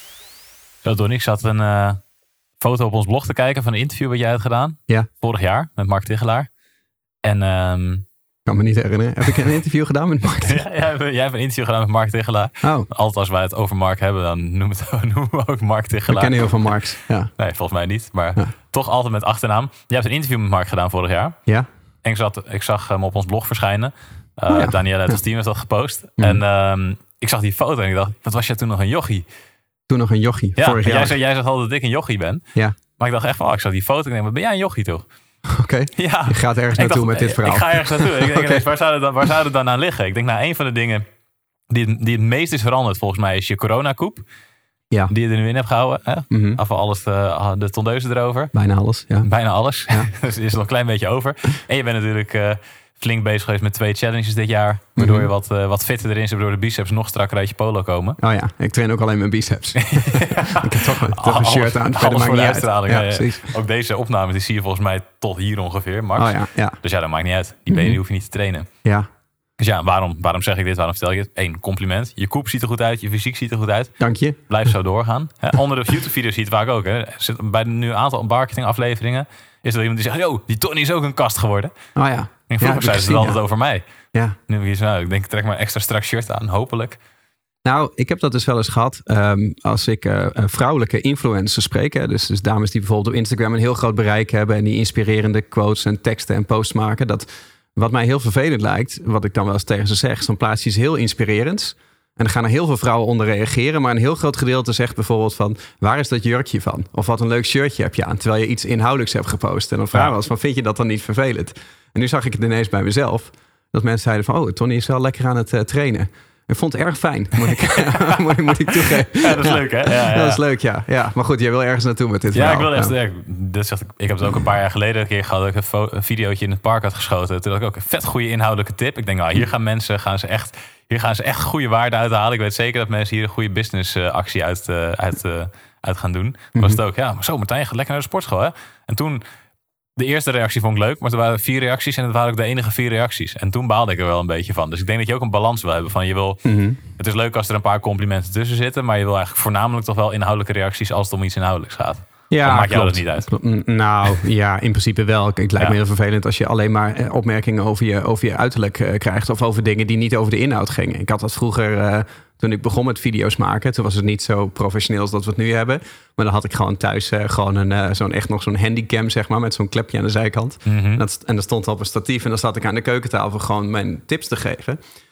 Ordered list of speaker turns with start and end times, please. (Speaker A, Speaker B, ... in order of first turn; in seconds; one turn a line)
Speaker A: 0.8-2.0
Speaker A: 2.6-6.5
Speaker A: 7.2-8.1
Speaker B: 8.5-10.6
Speaker A: 10.4-16.5
Speaker B: 12.6-12.9
Speaker B: 16.1-17.3
Speaker A: 17.4-21.4
Speaker A: 22.0-29.2
Speaker B: 24.5-25.2
Speaker B: 29.9-31.1
Speaker A: 30.6-32.4
Speaker A: 33.0-35.0
Speaker B: 35.5-38.6
Speaker A: 36.0-41.1
Speaker A: 41.7-44.2
Speaker A: 45.1-48.5
Speaker B: 46.3-46.6
Speaker B: 48.5-49.3
Speaker A: 49.2-58.2
Speaker B: 55.0-55.3
Speaker B: 58.2-63.5
Speaker A: 59.8-68.7
Speaker B: 66.2-66.8
Speaker B: 67.7-68.0
Speaker A: 69.6-74.0
Speaker B: 74.0-74.4
Speaker A: 74.5-81.7
Speaker B: 82.0-83.4
Speaker A: 82.5-83.8
Speaker A: 84.5-87.0
Speaker B: 87.7-122.9
Speaker A: 117.7-120.4
Speaker A: 122.3-139.2
Speaker A: 140.0-146.4
Speaker B: 146.4-146.8
Speaker A: 146.9-153.3
Speaker B: 152.3-174.8
Speaker A: 170.7-171.0